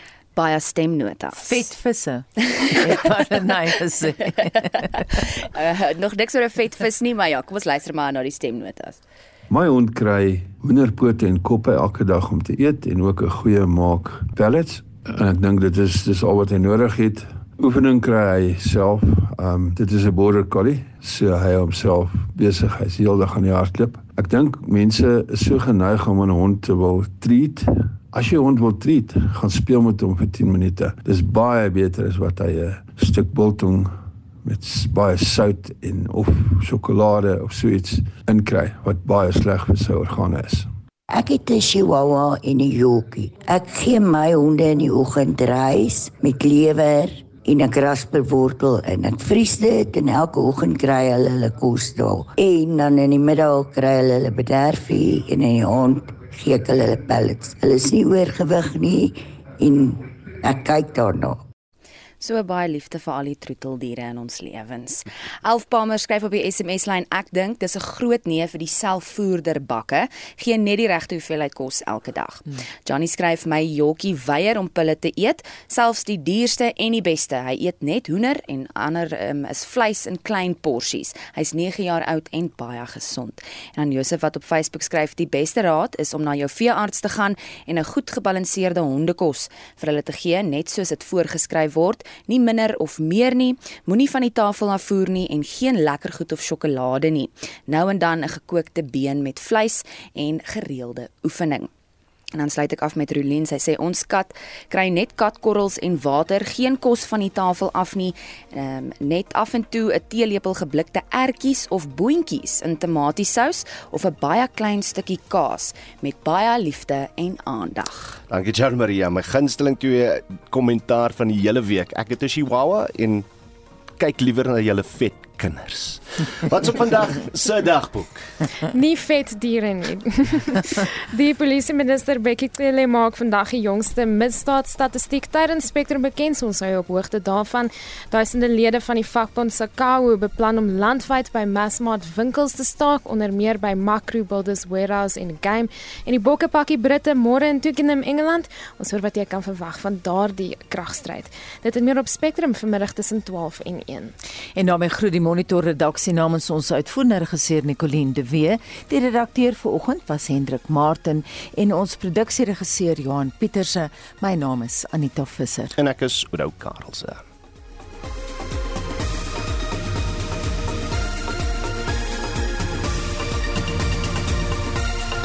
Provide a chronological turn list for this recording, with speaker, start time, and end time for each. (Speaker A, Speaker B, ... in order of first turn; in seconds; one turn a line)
Speaker A: 0.3-1.6
Speaker B: 1.4-5.2
Speaker A: 5.2-9.0
Speaker C: 9.5-40.7
Speaker D: 41.1-61.4
Speaker A: 62.2-101.7
Speaker A: 102.4-118.2
Speaker E: 118.3-123.3
Speaker E: 124.0-128.2
Speaker F: 128.7-154.1
Speaker B: 154.6-165.7
Speaker E: 165.8-167.2